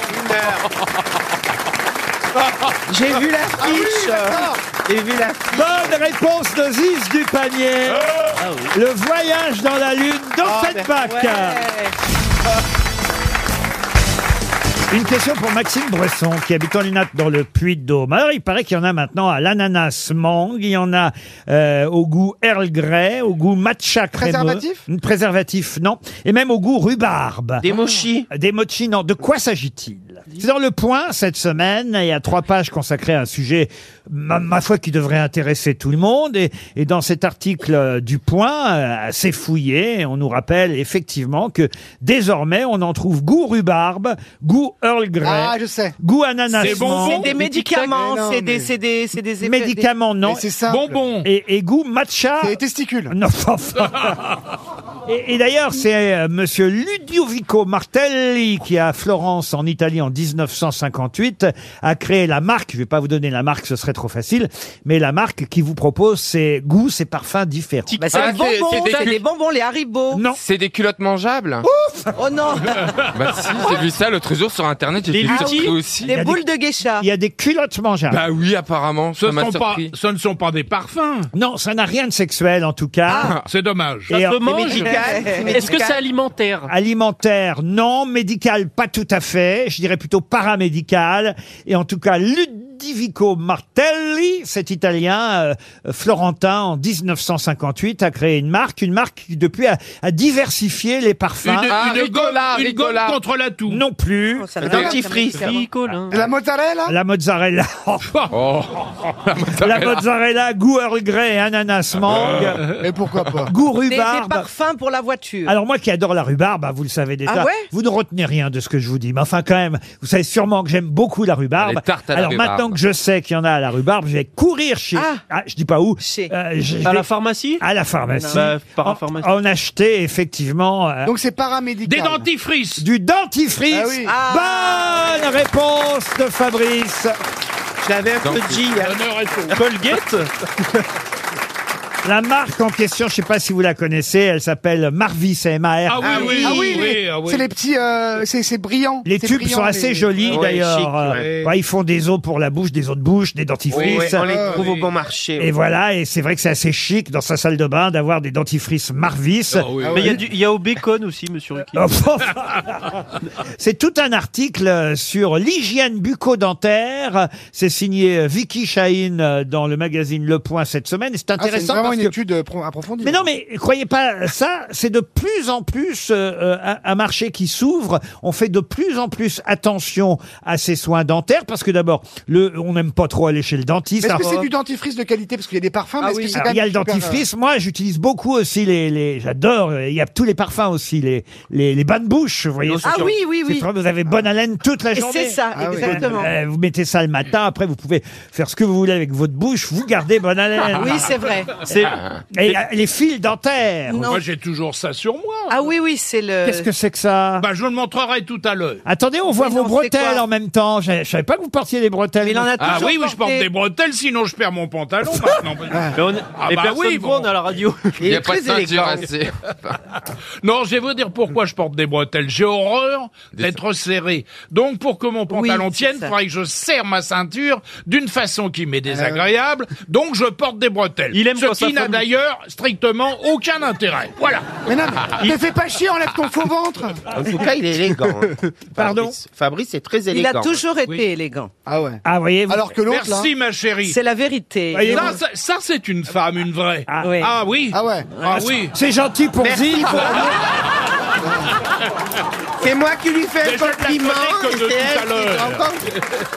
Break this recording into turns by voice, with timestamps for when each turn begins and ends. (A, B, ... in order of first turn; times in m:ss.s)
0:00.1-0:00.6 A
0:02.9-0:06.0 A
0:03.6-0:04.6 B
0:05.5-0:08.1 C
0:08.4-0:08.7 D
0:08.7-0:11.6 C
0:10.4-0:10.9 A
0:10.9-0:11.9 E
0:14.9-0:27.7 C
0:24.2-0:24.8 B
0:27.6-0:28.3 A
0:28.3-0:47.3 C
0:45.2-0:45.9 B
0:46.5-0:47.3 F
0:46.7-0:49.9 E
0:47.0-0:48.0 D
0:47.9-0:48.7 B
0:49.4-0:50.5 C
0:50.2-0:51.0 B
0:50.7-0:51.3 F
0:51.2-0:52.6 C
0:52.4-0:53.1 B
0:53.1-0:54.2 C
0:55.0-1:08.0 C
1:07.9-1:08.6 D
1:08.0-1:10.2 E
1:08.1-1:09.2 G
1:10.1-1:10.4 C
1:10.4-1:11.6 G
1:11.6-1:12.0 C
1:12.1-1:12.8 E
1:13.1-1:16.1 G
1:15.1-1:15.8 D
1:15.2-1:17.0 E
1:16.1-1:16.4 C
1:17.0-1:18.2 C
1:18.1-1:19.9 G
1:19.2-1:21.3 F
1:21.3-1:23.3 C
1:23.4-1:24.2 F
1:24.1-1:24.4 C
1:24.1-1:26.7 D
1:24.4-1:26.0 A
1:24.7-1:25.7 E
1:26.7-1:41.8 C
1:41.4-1:43.8 F
1:41.7-1:43.2 G
1:43.7-1:44.7 C
1:44.4-1:45.6 E
1:44.6-1:45.5 A
1:44.7-1:45.0 B
1:45.2-1:46.2 D
1:46.1-1:46.9 B
1:46.9-1:48.1 C
1:48.3-1:50.0 G
1:49.6-1:52.7 C
1:52.7-1:53.5 B
1:53.5-1:54.4 C
1:53.9-1:55.5 E
1:55.4-2:07.1 C
1:57.2-1:57.7 E
2:01.6-2:02.8 G
2:04.9-2:05.2 E
2:06.0-2:06.3 E
2:06.8-2:07.6 D
2:07.6-2:11.1 C
2:08.1-2:08.5 E
2:08.3-2:09.3 D
2:11.0-2:12.3 B
2:11.8-2:12.8 F
2:12.8-2:17.2 C
2:13.7-2:14.1 B
2:14.0-2:15.1 E
2:17.8-2:19.0 A
2:18.2-2:18.6 G
2:18.8-2:19.6 F
2:19.5-2:20.3 D
2:22.0-2:26.8 C
2:25.9-2:27.5 F
2:26.0-2:26.8 A
2:26.4-2:30.3 B
2:29.0-2:34.2 C
2:30.3-2:31.4 A
2:31.1-2:31.5 F
2:33.7-2:35.5 A
2:33.7-2:34.9 F
2:34.2-2:34.7 B
2:35.4-2:39.7 C
2:39.5-2:40.1 F
2:39.8-2:40.2 B
2:39.9-2:41.9 D
2:41.7-2:43.0 C
2:43.6-2:52.1 C
2:51.4-2:53.2 B
2:53.0-3:04.4 C
3:04.0-3:07.2 B
3:04.2-3:04.5 E
3:06.0-3:06.4 E
3:06.3-3:21.2 C
3:12.6-3:13.2 A
3:12.8-3:13.7 E
3:14.9-3:16.3 E
3:15.5-3:16.1 B
3:20.8-3:21.5 E
3:21.6-3:22.0 D
3:22.3-3:24.1 C
3:23.9-3:24.2 E
3:24.0-3:25.5 F
3:25.5-3:26.7 E
3:26.4-3:27.4 C
3:27.4-3:28.8 F
3:28.8-3:32.8 C
3:29.3-3:30.2 E
3:32.2-3:33.5 E
3:32.6-3:37.3 F
3:35.7-3:36.0 B
3:35.9-3:37.9 D
3:38.0-3:39.1 A
3:38.0-3:39.8 G
3:38.1-3:38.7 E
3:40.4-3:54.6 F
3:45.3-3:46.1 E
3:48.9-3:49.3 B
3:51.1-3:52.1 D
3:54.6-3:57.0 B
3:57.1-4:00.6 A
3:58.0-3:58.3 B
3:58.7-3:59.2 C
4:00.1-4:01.5 E
4:01.6-4:03.3 B
4:02.0-4:02.7 C
4:02.9-4:04.0 F
4:03.8-4:05.2 E
4:04.7-4:05.2 C
4:04.8-4:08.7 F
4:06.9-4:07.2 C
4:07.0-4:07.3 E
4:07.7-4:08.1 B
4:08.1-4:08.4 E
4:08.3-4:10.3 C
4:09.4-4:10.4 A
4:12.6-4:15.8 A
4:13.4-4:15.7 F